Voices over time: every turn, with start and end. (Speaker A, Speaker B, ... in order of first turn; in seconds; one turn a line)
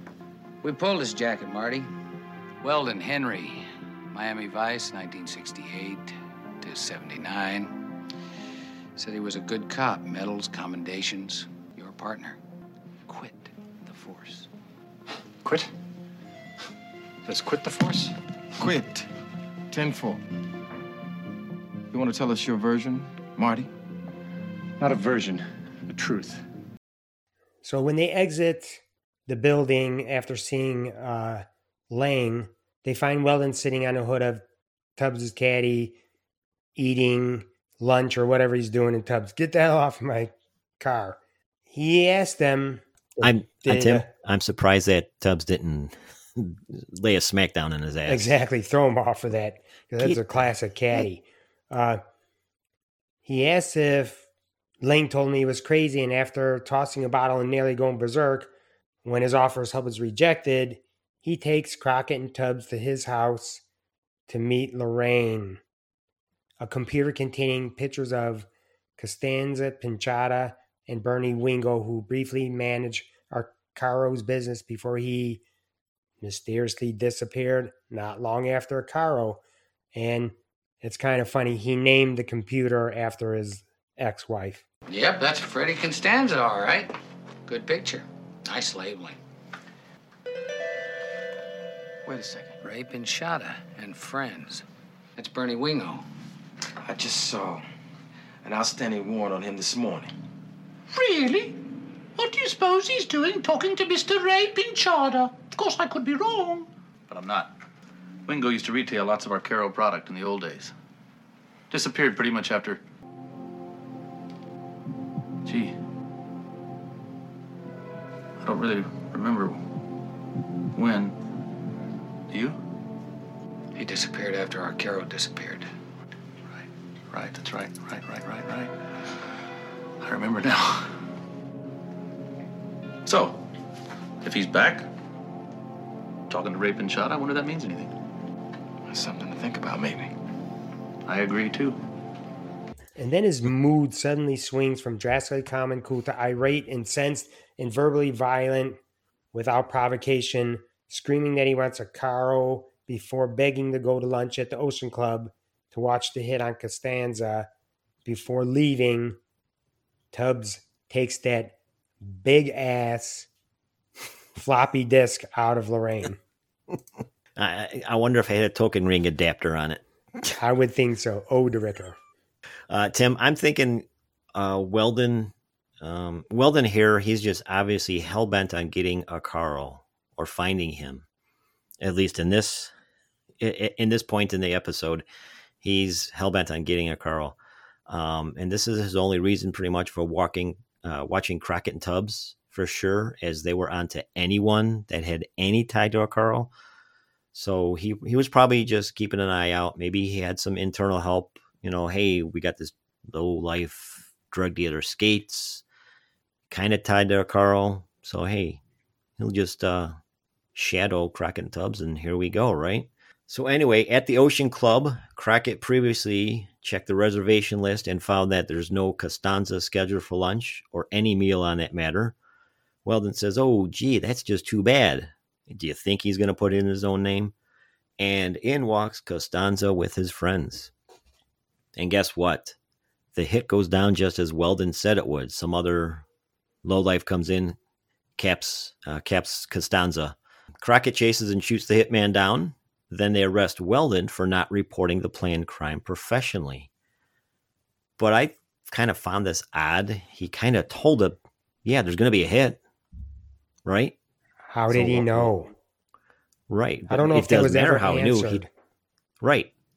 Speaker A: 0.6-1.9
Speaker A: 2.6-7.7
Speaker A: 8.9-12.4
Speaker A: 13.1-14.5
Speaker B: 15.4-15.7
Speaker B: 17.2-18.1
Speaker C: 18.6-19.1
Speaker C: 19.7-20.2
Speaker C: 21.9-23.7
Speaker B: 24.8-26.4
Speaker D: 27.6-34.4
Speaker D: 35.0-36.0
Speaker D: 36.8-41.2
Speaker D: 41.7-44.1
Speaker E: 43.2-48.3
Speaker D: 48.0-52.0
Speaker E: 50.0-51.0
Speaker D: 53.2-54.2
Speaker D: 54.8-58.5
Speaker D: 59.0-63.6
Speaker D: 64.3-65.6
Speaker D: 66.6-75.4
Speaker D: 76.2-79.4
Speaker D: 79.9-84.6
Speaker A: 84.9-86.9
Speaker A: 87.5-89.2
Speaker C: 92.0-92.6
Speaker A: 92.6-94.6
Speaker A: 95.2-96.0
Speaker C: 96.8-97.6
Speaker C: 98.4-100.1
Speaker F: 100.9-101.5
Speaker F: 102.2-107.5
Speaker F: 108.2-110.7
Speaker F: 111.7-112.8
Speaker F: 115.4-115.7
Speaker F: 118.4-119.6
Speaker F: 120.7-121.2
Speaker F: 122.3-122.6
Speaker A: 123.7-125.7
Speaker F: 126.5-128.7
Speaker F: 130.0-130.9
Speaker F: 133.0-133.4
Speaker F: 134.2-134.8
Speaker F: 136.3-137.9
Speaker C: 138.9-140.1
Speaker F: 141.1-141.8
Speaker D: 143.0-148.8
Speaker D: 149.3-157.5
Speaker D: 158.0-159.2
Speaker D: 160.1-163.3
Speaker D: 164.3-166.2
Speaker E: 167.3-169.8
Speaker D: 170.2-172.0
Speaker E: 172.7-181.0
Speaker E: 181.8-182.7
Speaker E: 183.4-185.1
Speaker E: 185.6-196.5
Speaker E: 197.3-205.6
Speaker E: 206.5-208.6
Speaker E: 209.2-210.0
Speaker E: 210.5-222.2
Speaker E: 222.8-227.3
Speaker E: 228.0-230.7
Speaker E: 231.8-232.6
Speaker E: 233.1-236.0
Speaker E: 236.6-237.6
Speaker E: 238.2-246.7
Speaker E: 248.0-252.6
Speaker E: 253.6-253.9
Speaker D: 254.5-255.5
Speaker E: 254.7-255.3
Speaker E: 256.5-258.4
Speaker D: 256.9-258.5
Speaker E: 259.2-259.5